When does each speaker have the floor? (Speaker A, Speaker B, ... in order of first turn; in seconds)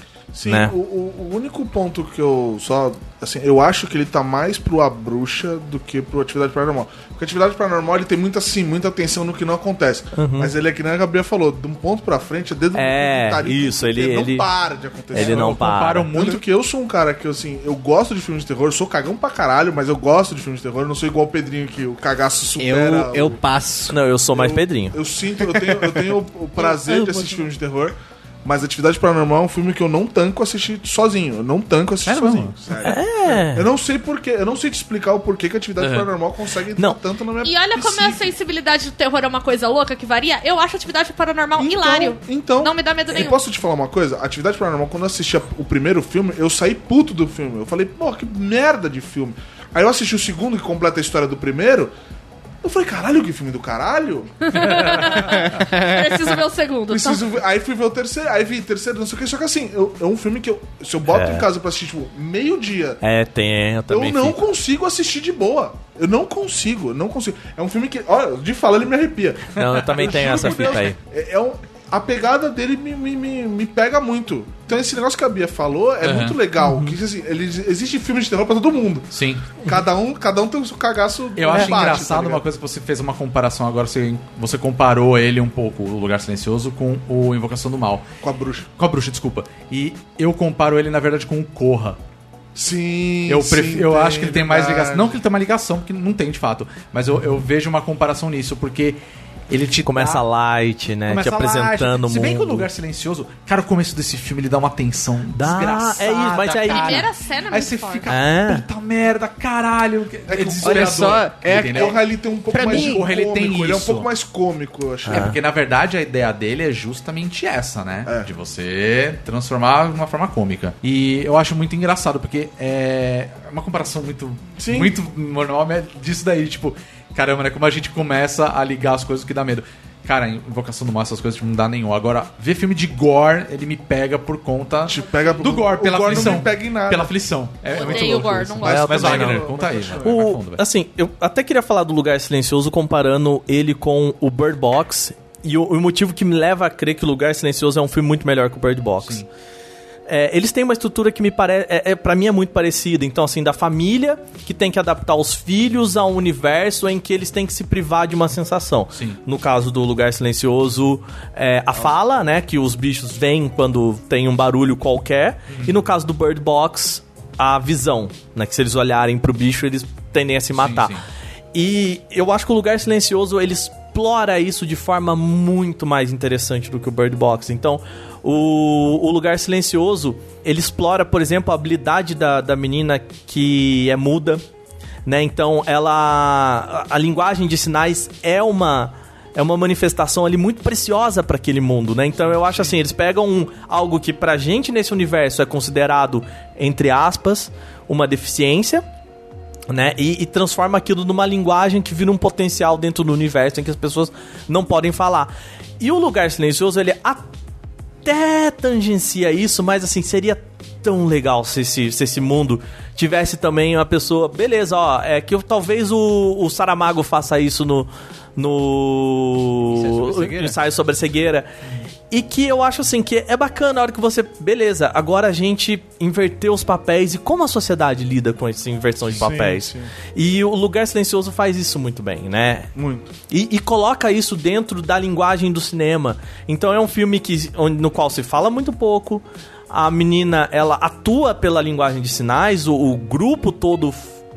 Speaker A: 0.3-23.4, 24.3-38.4, 41.6-51.9, 52.6-55.4, 56.9-63.0, 63.9-82.5, 88.2-88.7, 92.5-95.2, 110.3-115.3, 124.6-124.9, 134.9-137.1, 137.8-140.2, 229.1-229.9, 232.8-233.1
Speaker B: 0.5-0.7, 10.2-10.5, 12.8-14.5, 15.1-16.1, 23.9-25.0, 25.5-26.0, 26.6-27.4, 32.8-33.7, 61.1-61.5, 63.0-64.4, 69.6-71.0, 76.6-77.0, 81.5-81.8, 99.9-102.7, 105.3-107.1, 108.1-108.7, 115.1-115.4, 138.7-139.5, 140.0-149.2, 150.1-171.0, 171.5-184.4, 185.1-198.8, 199.7-207.2, 208.1-221.5, 222.1-232.7, 233.3-244.1
Speaker C: 15.1-16.4, 32.0-32.6, 35.8-36.1, 70.0-70.8, 76.0-76.4, 79.1-79.6, 81.4-88.1, 88.8-92.0, 93.3-100.2, 101.1-112.0, 112.5-114.1, 115.1-140.6, 158.9-159.2, 165.5-165.8, 170.6-171.0
Speaker D: 22.6-24.0, 55.4-56.1, 110.6-112.0, 112.5-113.0, 219.7-220.6
Speaker E: 37.4-43.4, 54.4-57.2, 106.6-108.1, 137.7-139.4